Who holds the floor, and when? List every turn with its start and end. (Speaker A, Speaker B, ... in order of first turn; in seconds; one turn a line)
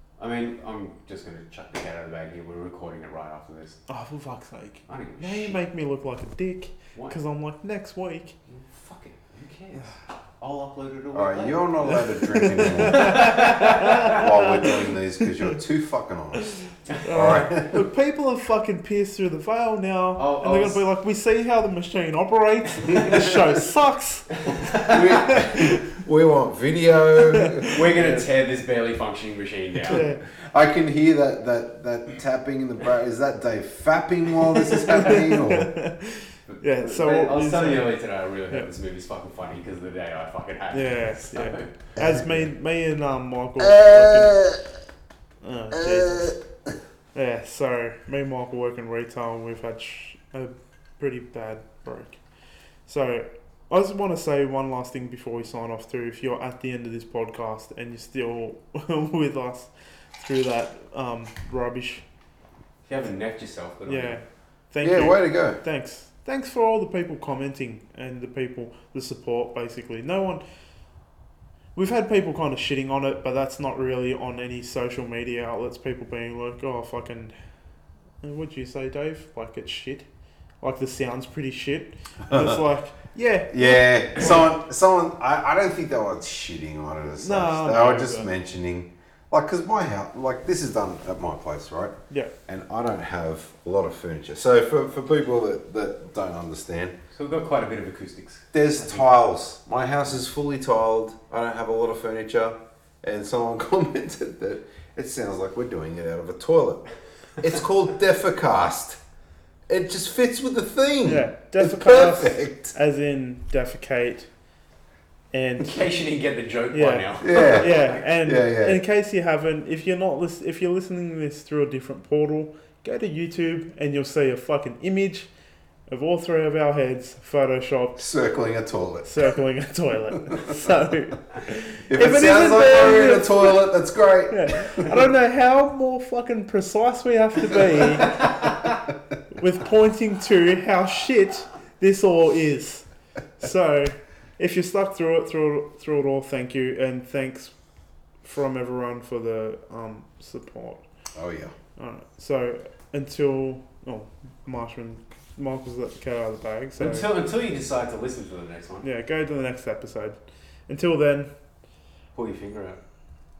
Speaker A: 0.2-3.8
Speaker B: 3.9-8.3
Speaker A: 4.9-5.6
Speaker A: 8.5-14.2
Speaker C: 11.1-16.5
Speaker B: 12.2-14.7
Speaker B: 16.5-25.8
Speaker C: 17.1-17.8
Speaker A: 20.2-20.8
Speaker A: 24.4-25.1
Speaker C: 24.8-28.2
Speaker B: 27.2-27.8
Speaker A: 27.7-30.0
Speaker B: 29.9-30.2
Speaker C: 29.9-35.7
Speaker A: 34.5-35.0
Speaker B: 34.9-37.9
Speaker A: 36.5-41.7
Speaker B: 40.7-44.4
Speaker C: 42.0-42.3
Speaker C: 43.6-44.6
Speaker B: 45.4-46.3
Speaker C: 45.7-46.4
Speaker B: 47.1-52.2
Speaker B: 52.9-62.0
Speaker A: 62.8-64.2
Speaker B: 63.9-70.4
Speaker C: 64.8-65.6
Speaker B: 71.7-77.3
Speaker B: 78.2-80.1
Speaker B: 80.6-84.5
Speaker C: 82.3-82.6
Speaker C: 83.5-92.0
Speaker B: 87.2-88.3
Speaker C: 92.5-97.0
Speaker A: 97.1-99.0
Speaker C: 98.5-106.8
Speaker C: 107.4-109.0
Speaker C: 109.7-112.7
Speaker B: 111.0-114.3
Speaker B: 115.3-115.8
Speaker A: 115.6-118.0
Speaker B: 116.7-125.3
Speaker C: 117.2-118.8
Speaker B: 125.9-128.1
Speaker C: 128.0-129.1
Speaker B: 129.0-133.6
Speaker C: 130.3-130.6
Speaker C: 131.9-134.9
Speaker B: 134.3-138.2
Speaker B: 139.3-142.8
Speaker B: 143.4-147.5
Speaker B: 148.2-150.8
Speaker C: 151.1-151.5
Speaker B: 151.8-157.1
Speaker A: 156.8-158.8
Speaker B: 158.8-160.2
Speaker B: 160.7-161.3
Speaker A: 162.1-162.8